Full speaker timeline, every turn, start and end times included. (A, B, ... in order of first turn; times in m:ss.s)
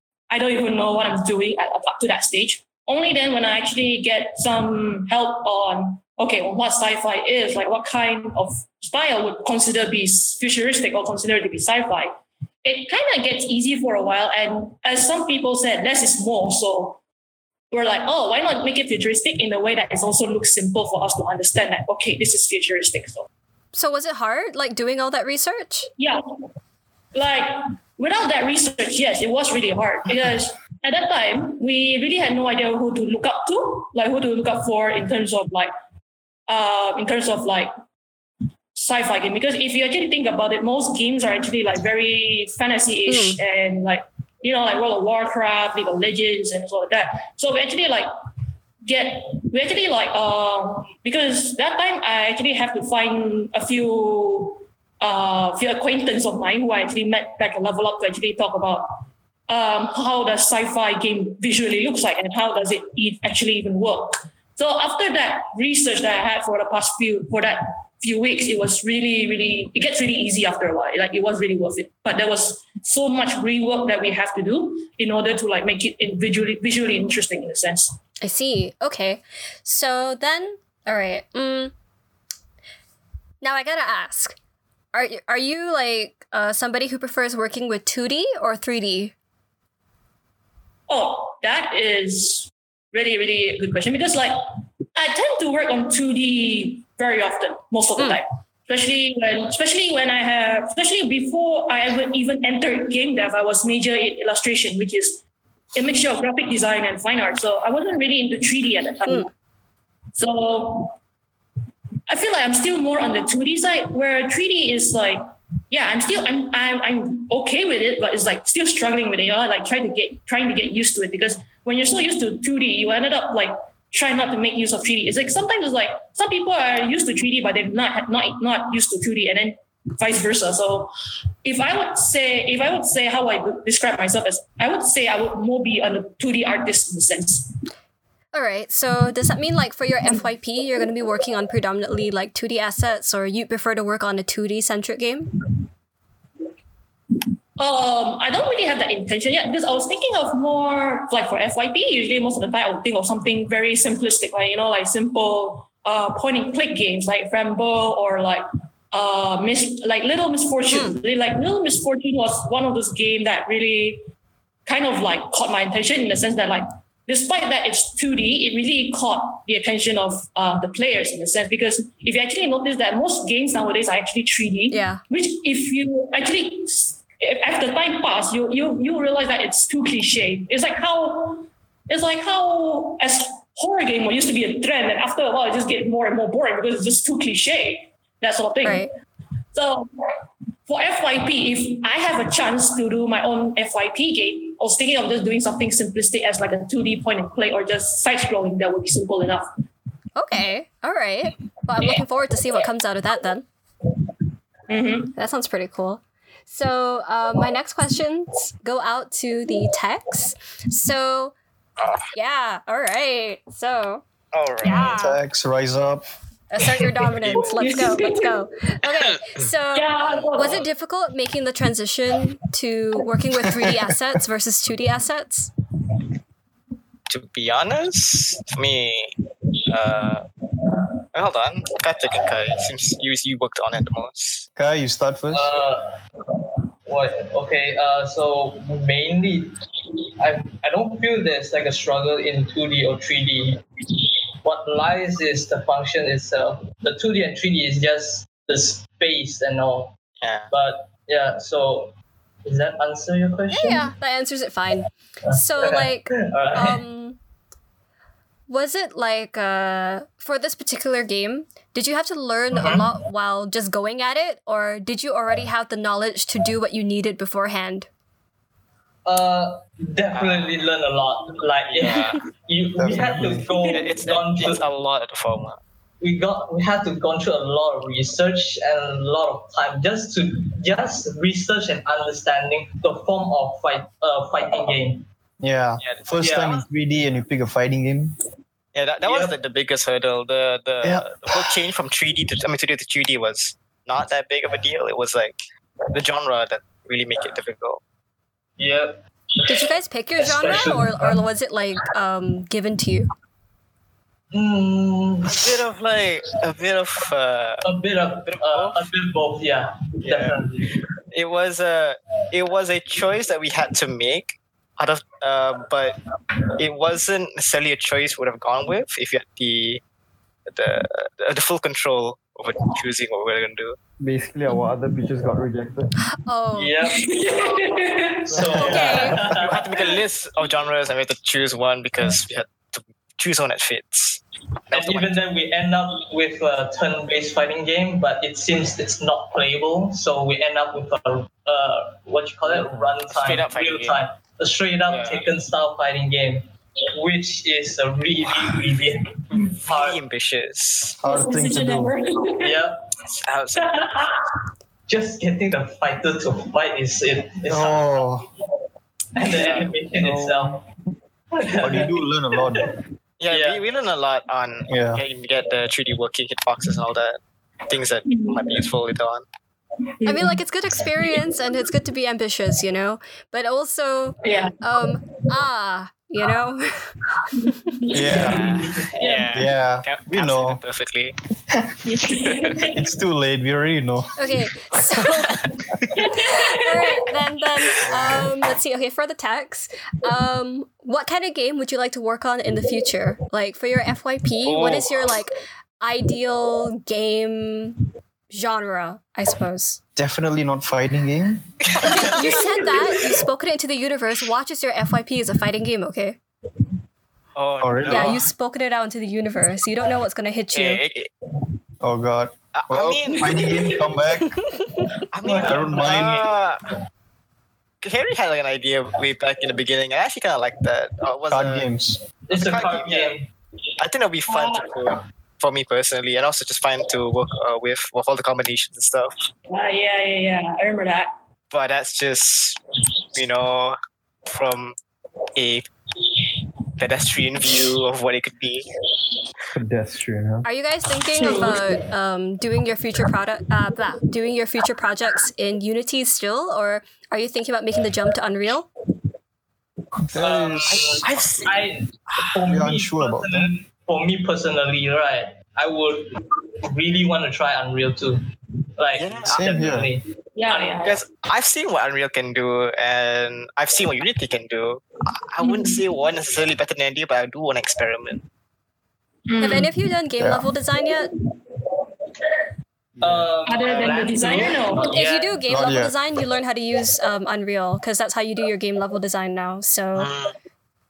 0:00.3-0:17.0 A
0:17.7-0:23.3 A
0:23.7-0:25.9 B
0:27.1-0:35.7 A
0:36.5-0:37.7 A
0:38.7-0:48.1 A
0:43.1-0:43.4 B
0:48.8-1:18.0 A
1:18.2-1:21.7 B
1:23.4-1:24.4 B
1:24.9-1:29.1 B
1:30.9-1:34.4 A
1:35.0-1:45.2 A
1:45.8-1:49.3 A
1:50.2-1:51.0 A
1:52.1-2:10.9 A
2:11.4-2:17.5 A
2:18.3-2:25.3 B
2:27.6-2:44.0 A
2:40.7-2:41.0 B
2:44.7-3:08.9 A
2:54.7-2:55.0 B
3:08.6-3:08.9 B
3:09.5-3:10.1 A
3:10.7-3:19.5 A
3:20.2-3:23.5 B
3:24.7-3:25.1 A
3:25.2-3:31.4 B
3:31.8-3:32.1 C
3:32.1-3:34.0 B
3:34.3-3:35.0 C
3:34.6-3:35.2 B
3:34.9-3:36.0 D
3:36.5-3:45.5 B
3:37.6-3:38.4 A
3:39.7-3:40.6 A
3:47.1-3:49.1 C
3:49.7-3:50.2 C
3:51.1-3:54.5 C
3:54.6-3:55.6 D
3:55.3-3:56.0 E
3:56.9-3:59.6 E
4:00.2-4:03.6 E
4:04.4-4:10.0 E
4:10.2-4:10.5 C
4:10.5-4:11.9 E
4:12.5-4:13.9 E
4:13.5-4:17.2 B
4:15.3-4:16.8 E
4:18.5-4:27.9 B
4:22.5-4:22.9 E
4:29.0-4:34.6 E
4:30.1-4:30.5 C
4:31.7-4:32.2 C
4:32.8-4:33.5 D
4:33.7-4:35.6 C
4:36.0-4:45.1 E
4:45.4-4:48.2 D
4:45.8-4:46.1 C
4:46.2-4:46.6 E
4:48.8-4:57.8 C
4:49.0-4:49.4 E
4:50.8-4:51.6 D
4:58.6-4:59.6 E
4:59.5-5:03.1 B
5:00.2-5:01.2 E
5:04.3-5:05.6 E
5:05.3-5:07.6 C
5:07.7-5:10.8 E
5:08.3-5:08.9 C
5:10.0-5:10.5 C
5:11.1-5:16.0 C
5:16.6-5:19.8 C
5:20.5-5:23.8 C
5:24.0-5:25.9 F
5:26.3-5:26.7 B
5:26.6-5:27.3 E
5:26.9-5:28.6 A
5:28.3-5:29.8 E
5:28.4-5:28.8 F
5:28.6-5:29.2 B
5:28.6-5:35.2 C
5:34.7-5:50.0 E
5:43.1-5:44.0 C
5:44.9-5:45.3 C
5:49.3-5:51.0 C
5:51.0-5:52.0 D
5:51.1-5:52.6 A
5:52.4-5:52.8 E
5:53.1-5:54.1 C
5:53.6-5:54.1 A
5:54.9-5:58.0 E
5:57.5-5:58.3 D
5:59.2-6:00.7 E
5:59.3-5:59.8 C
6:01.4-6:02.8 E
6:01.6-6:02.7 D
6:03.2-6:09.2 C
6:03.3-6:03.6 E
6:04.7-6:05.0 D
6:08.1-6:08.6 A
6:10.0-6:10.4 A
6:10.0-6:16.8 B
6:14.2-6:14.6 A
6:17.3-6:19.4 A
6:17.9-6:18.6 D
6:18.1-6:21.2 C
6:19.3-6:20.6 D
6:21.8-6:22.8 A
6:22.6-6:24.2 D
6:24.2-6:25.4 B
6:26.0-6:27.0 A
6:26.2-6:39.8 B
6:27.9-6:28.2 D
6:34.4-6:35.2 C
6:40.0-6:41.5 D
6:41.7-6:42.4 C
6:41.8-6:46.2 B
6:47.4-6:48.2 C
6:47.6-6:48.2 D
6:47.9-6:50.8 B
6:50.5-6:51.1 C
6:51.8-6:54.4 D
6:52.5-6:53.4 C
6:53.2-6:54.0 A
6:55.1-6:56.6 C
6:55.2-6:56.1 E
6:55.3-6:56.3 D
6:57.8-7:01.7 C
7:01.3-7:02.0 D
7:02.3-7:03.3 E
7:02.3-7:03.2 C
7:03.8-7:09.1 C
7:04.3-7:04.9 A
7:09.5-7:11.1 A
7:11.5-7:12.6 C
7:13.1-7:14.8 C
7:15.4-7:15.7 C
7:16.8-7:18.7 C
7:19.5-7:20.5 F
7:20.4-7:28.7 B
7:21.1-7:21.8 A
7:30.1-7:31.1 D
7:30.2-7:38.2 E
7:30.7-7:31.6 C
7:32.4-7:33.5 D
7:38.8-7:40.0 E
7:39.0-7:39.5 C
7:39.3-7:39.9 D
7:40.4-7:41.0 A
7:40.8-7:48.2 C
7:45.4-7:45.8 A
7:49.3-7:49.7 A
7:49.4-7:51.1 B
7:50.2-7:50.5 D
7:53.0-7:55.4 E
7:53.0-7:53.3 D
7:53.5-7:55.0 A
7:53.6-7:54.2 C
7:54.9-8:00.1 B
7:55.5-7:55.9 D
8:00.0-8:00.3 C